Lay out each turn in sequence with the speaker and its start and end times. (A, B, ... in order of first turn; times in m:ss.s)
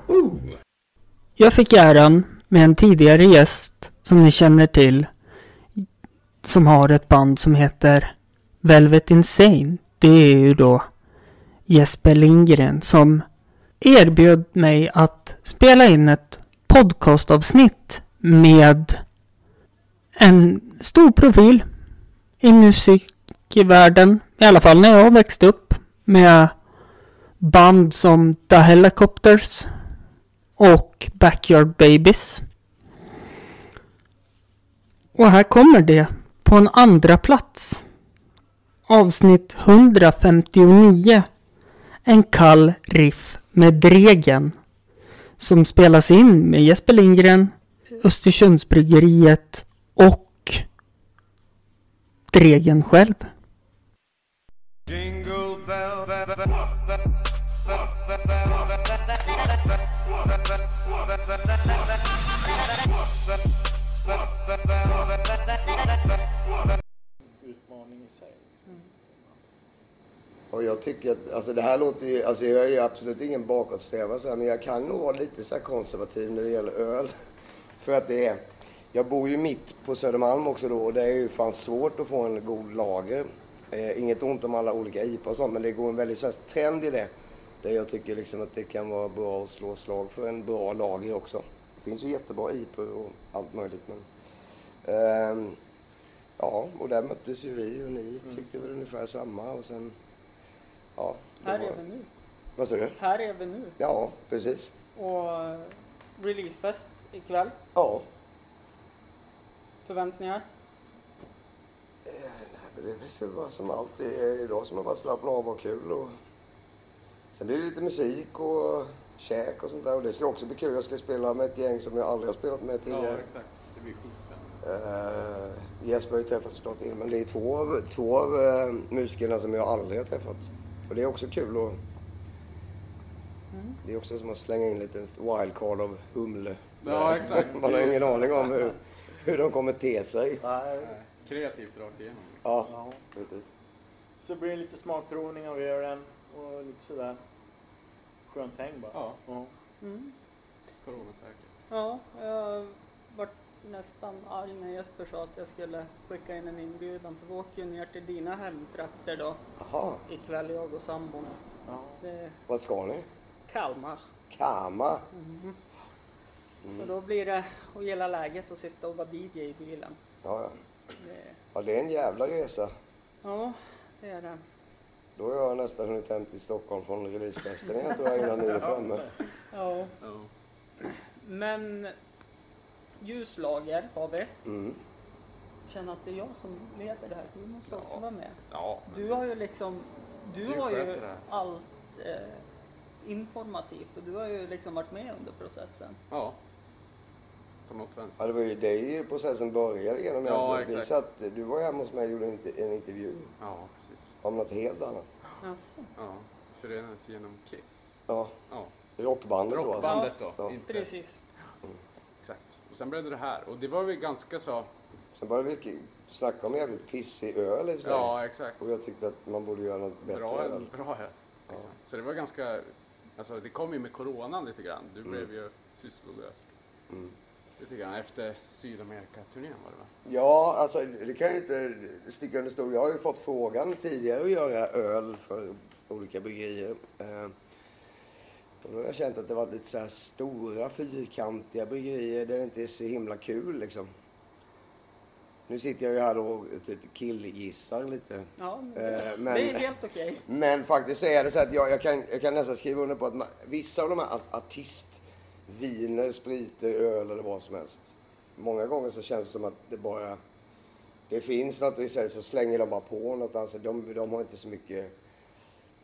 0:01.4-0:05.1 A
0:06.4-0:10.8 A
0:11.7-0:13.2 A
0:13.8-0:19.0 A
0:20.2-0:21.6 A
0:22.4-0:26.5 A
0:27.4-0:29.7 A
0:30.6-0:32.4 A
0:35.2-0:37.8 A
0:38.9-0:41.3 A
0:42.1-0:44.6 A
0:45.4-0:50.6 A
0:52.3-0:53.3 A
1:07.4-1:09.3 B
1:10.5-1:17.1 C
1:17.8-1:27.1 C
1:27.6-1:34.0 C
1:34.8-1:35.6 C
1:36.4-1:40.0 C
1:41.0-1:41.8 C
1:41.4-1:42.1 D
1:42.6-1:43.0 C
1:43.0-1:43.8 D
1:43.8-1:44.7 C
1:45.0-1:47.6 D
1:47.8-1:48.1 C
1:49.9-1:50.4 D
1:52.1-1:56.2 C
1:57.3-2:03.2 C
2:02.9-2:04.6 E
2:04.6-2:11.8 C
2:13.8-2:20.4 C
2:16.8-2:18.7 E
2:20.4-2:21.0 B
2:20.8-2:22.7 E
2:22.4-2:23.4 C
2:22.7-2:23.0 B
2:24.2-2:27.2 B
2:28.3-2:29.5 B
2:28.9-2:29.2 E
2:29.8-2:30.1 D
2:30.8-2:31.5 E
2:31.7-2:39.4 D
2:39.6-2:40.0 C
2:40.1-2:41.4 D
2:41.7-2:42.0 B
2:42.0-2:42.3 D
2:42.5-2:43.1 C
2:43.5-2:44.0 D
2:44.3-2:45.1 C
2:45.1-2:45.6 D
2:46.6-2:46.9 C
2:46.7-2:50.0 D
2:50.2-2:50.6 C
2:51.0-2:51.4 D
2:51.5-2:52.7 C
2:53.2-2:54.4 D
2:55.2-2:59.0 C
2:58.5-2:59.0 E
2:59.5-2:59.9 D
3:00.0-3:00.3 E
3:01.2-3:01.9 D
3:03.0-3:04.3 D
3:04.4-3:04.8 C
3:05.7-3:12.4 D
3:07.6-3:09.3 E
3:10.4-3:11.2 E
3:13.0-3:16.0 D
3:16.1-3:16.4 E
3:17.7-3:18.3 E
3:18.2-3:23.3 C
3:20.2-3:21.0 E
3:23.4-3:24.2 E
3:24.2-3:25.1 C
3:25.4-3:25.9 D
3:26.0-3:28.0 E
3:28.1-3:28.3 C
3:28.5-3:28.8 E
3:29.0-3:30.6 C
3:29.5-3:30.9 E
3:29.8-3:31.2 D
3:32.2-3:34.7 E
3:35.2-3:40.7 C
3:37.8-3:38.7 E
3:40.0-3:46.4 E
3:47.6-3:49.9 E
3:50.1-3:57.3 C
3:58.6-4:03.9 C
4:05.5-4:09.6 C
4:08.4-4:10.2 D
4:10.3-4:20.2 C
4:21.1-4:24.9 C